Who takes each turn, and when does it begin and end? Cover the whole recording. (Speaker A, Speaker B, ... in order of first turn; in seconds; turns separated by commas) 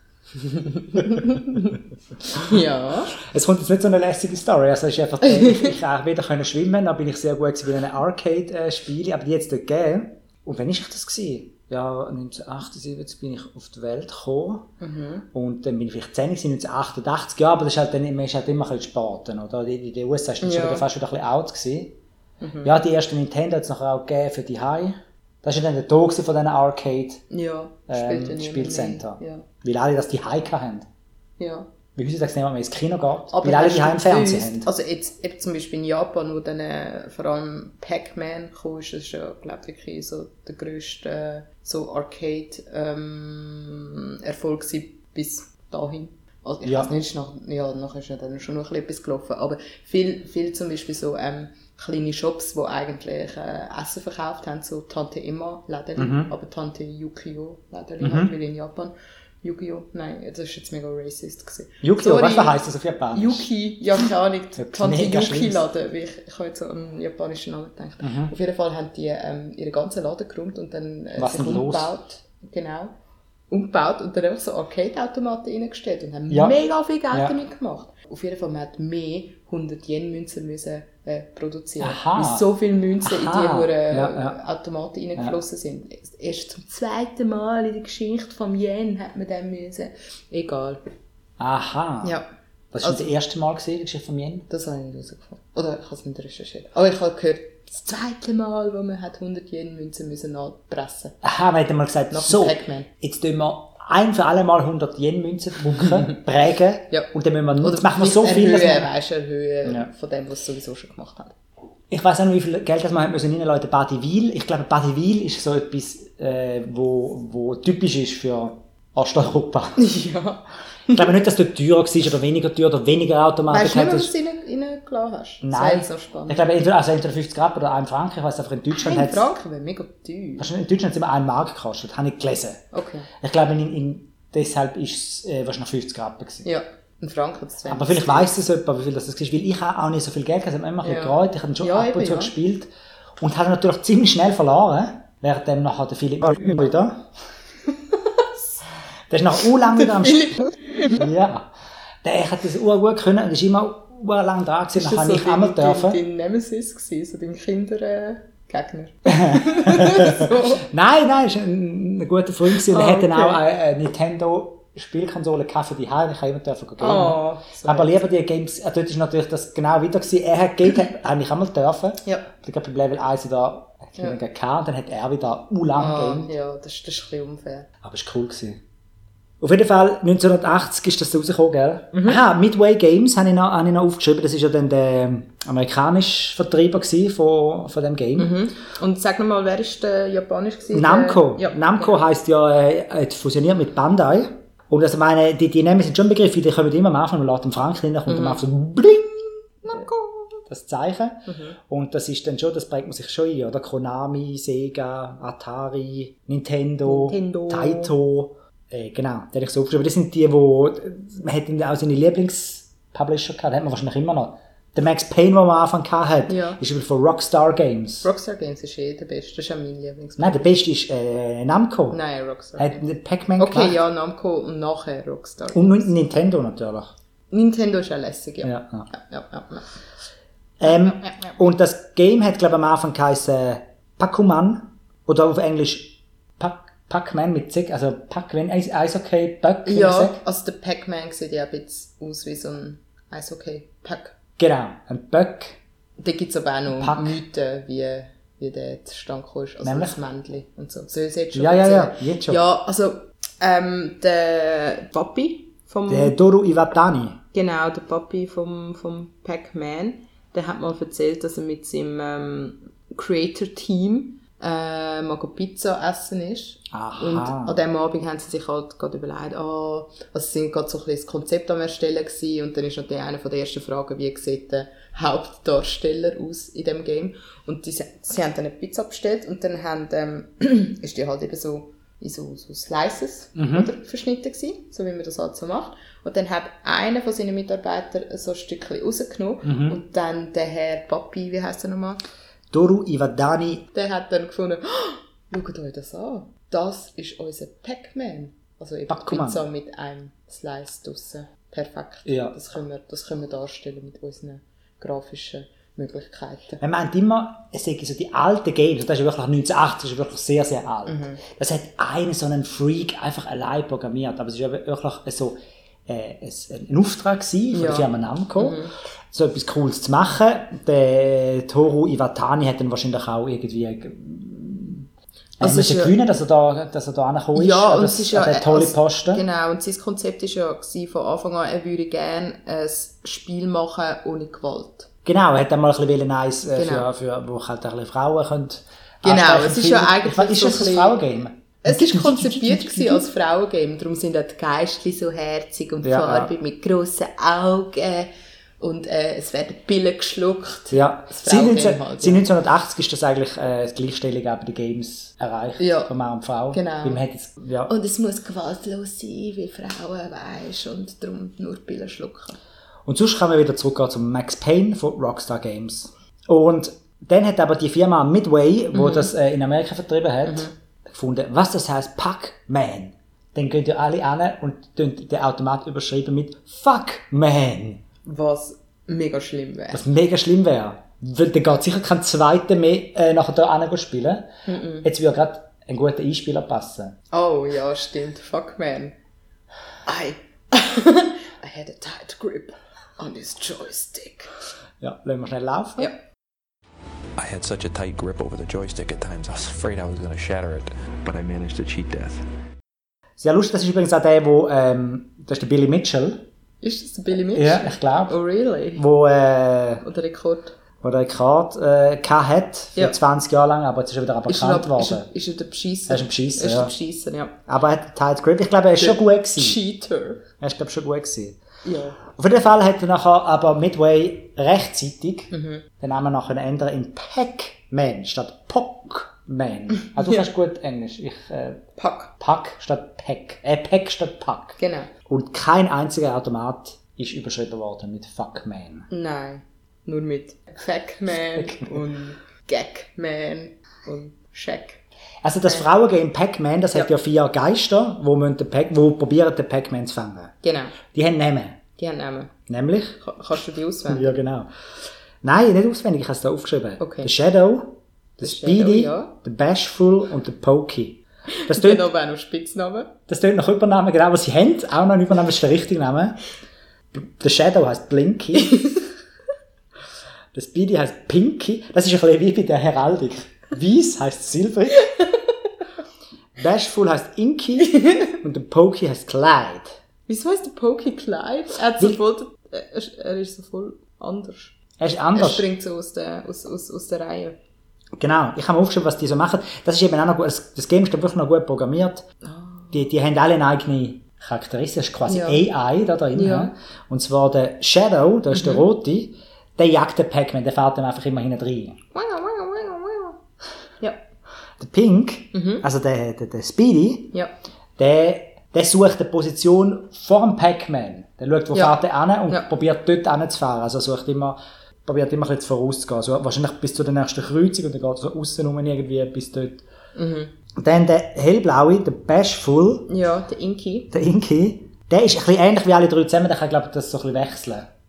Speaker A: 0.3-3.1, Speaker B: 3.1-14.7, Speaker A: 5.2-5.7, Speaker A: 14.8-15.2, Speaker B: 15.3-22.0, Speaker A: 20.4-20.9, Speaker A: 22.4-22.8, Speaker B: 22.6-27.2, Speaker A: 27.3-29.4, Speaker B: 27.9-30.9, Speaker A: 31.4-31.7, Speaker B: 31.9-34.7, Speaker A: 33.3-62.5, Speaker B: 46.6-46.9, Speaker B: 56.0-56.3, Speaker B: 58.0-58.3, Speaker B: 61.8-63.5, Speaker A: 63.1-72.9, Speaker B: 64.6-65.6, Speaker B: 68.0-68.3, Speaker B: 71.2-71.9, Speaker A: 73.5-90.8, Speaker B: 76.3-76.5, Speaker B: 81.8-82.5, Speaker B: 83.0-84.4, Speaker B: 91.4-92.2, Speaker B: 92.7-94.5, Speaker A: 92.8-93.1, Speaker A: 94.5-101.2, Speaker B: 101.2-108.9, Speaker A: 102.1-102.9, Speaker A: 107.6-111.3, Speaker B: 111.9-119.8, Speaker A: 119.8-121.1, Speaker B: 120.9-124.1, Speaker A: 123.5-126.4, Speaker B: 125.4-129.3, Speaker A: 128.7-130.5, Speaker B: 130.4-132.6, Speaker A: 132.7-133.1, Speaker B: 133.2-136.4, Speaker A: 136.4-138.3, Speaker B: 137.7-147.1, Speaker A: 140.8-142.3, Speaker A: 147.9-148.3, Speaker B: 149.1-150.4, Speaker A: 149.7-151.0, Speaker B: 150.9-151.5, Speaker B: 152.0-156.0, Speaker A: 154.7-160.6, Speaker B: 159.1-176.3, Speaker A: 162.6-163.4, Speaker A: 166.8-168.0, Speaker A: 172.0-172.3, Speaker A: 175.8-177.7, Speaker B: 177.8-178.6, Speaker B: 179.4-188.3, Speaker A: 181.9-182.2, Speaker A: 188.2-192.0, Speaker B: 190.7-199.9, Speaker A: 198.1-198.4, Speaker A: 199.6-200.4, Speaker B: 200.5-218.1, Speaker A: 201.3-201.6, Speaker A: 206.8-207.9, Speaker A: 216.3-216.6, Speaker A: 218.0-220.5, Speaker B: 220.2-222.0, Speaker A: 221.9-222.8, Speaker B: 222.6-223.8, Speaker A: 223.4-225.9, Speaker B: 225.5-226.9, Speaker A: 227.3-229.7, Speaker B: 228.4-228.9, Speaker B: 230.6-240.2, Speaker A: 230.7-231.3, Speaker A: 239.6-244.1, Speaker B: 244.4-245.6, Speaker A: 246.0-256.1, Speaker B: 246.7-247.2, Speaker B: 249.6-250.0, Speaker B: 251.3-252.4, Speaker B: 255.9-257.2, Speaker A: 257.3-292.0, Speaker B: 266.7-267.6, Speaker B: 283.4-283.7, Speaker B: 289.4-289.8, Speaker B: 292.5-293.7, Speaker A: 293.7-306.6, Speaker B: 298.9-299.4, Speaker B: 302.1-302.3, Speaker B: 306.6-324.9, Speaker A: 310.9-311.2, Speaker A: 317.5-318.7, Speaker A: 325.4-325.9, Speaker B: 325.4-329.2, Speaker A: 327.3-334.9, Speaker B: 335.0-343.1, Speaker A: 336.5-336.9, Speaker A: 339.0-341.0, Speaker A: 341.6-352.3, Speaker B: 345.8-346.3, Speaker B: 350.7-357.7, Speaker A: 355.6-355.9, Speaker A: 356.5-357.0, Speaker A: 357.7-362.4, Speaker B: 362.9-377.8, Speaker A: 368.7-369.1, Speaker A: 370.2-370.5, Speaker A: 378.1-379.8, Speaker B: 379.7-384.3, Speaker A: 384.4-384.9, Speaker B: 384.8-386.9, Speaker A: 387.1-388.9, Speaker A: 389.9-394.3, Speaker B: 394.8-395.9, Speaker C: 397.2-402.2, Speaker B: 403.2-406.2, Speaker A: 406.6-408.8, Speaker B: 407.3-408.2, Speaker B: 408.8-409.8, Speaker A: 409.8-410.5, Speaker B: 410.8-415.1, Speaker A: 414.3-417.4, Speaker B: 415.9-416.7, Speaker B: 417.5-419.6, Speaker A: 418.8-420.2, Speaker B: 420.4-421.4, Speaker A: 421.6-422.0, Speaker B: 422.0-431.6, Speaker A: 425.3-425.6, Speaker A: 431.8-432.1, Speaker B: 432.2-438.9, Speaker A: 434.6-434.9, Speaker A: 438.9-444.8, Speaker B: 441.3-441.8, Speaker B: 445.2-451.6, Speaker A: 450.4-450.8, Speaker A: 451.8-452.3, Speaker B: 452.5-453.0, Speaker A: 453.0-454.1, Speaker B: 453.9-454.5, Speaker B: 455.2-461.9, Speaker A: 456.8-457.1, Speaker A: 458.2-459.1, Speaker A: 461.3-462.9, Speaker B: 463.1-466.2, Speaker B: 466.9-468.8, Speaker A: 468.4-468.8, Speaker B: 470.3-474.9, Speaker B: 476.4-479.8, Speaker A: 477.6-478.1, Speaker A: 480.1-484.6, Speaker B: 484.8-485.5, Speaker A: 485.1-487.4, Speaker B: 488.0-492.1, Speaker A: 492.2-492.8, Speaker B: 492.7-501.8, Speaker A: 495.1-495.4, Speaker A: 496.1-496.5, Speaker A: 498.3-498.6, Speaker A: 501.9-503.2, Speaker B: 504.6-507.1, Speaker A: 505.3-505.6, Speaker B: 507.8-519.6, Speaker A: 511.5-512.5, Speaker A: 519.9-520.3, Speaker B: 520.6-522.9, Speaker A: 522.9-523.9, Speaker B: 523.9-527.7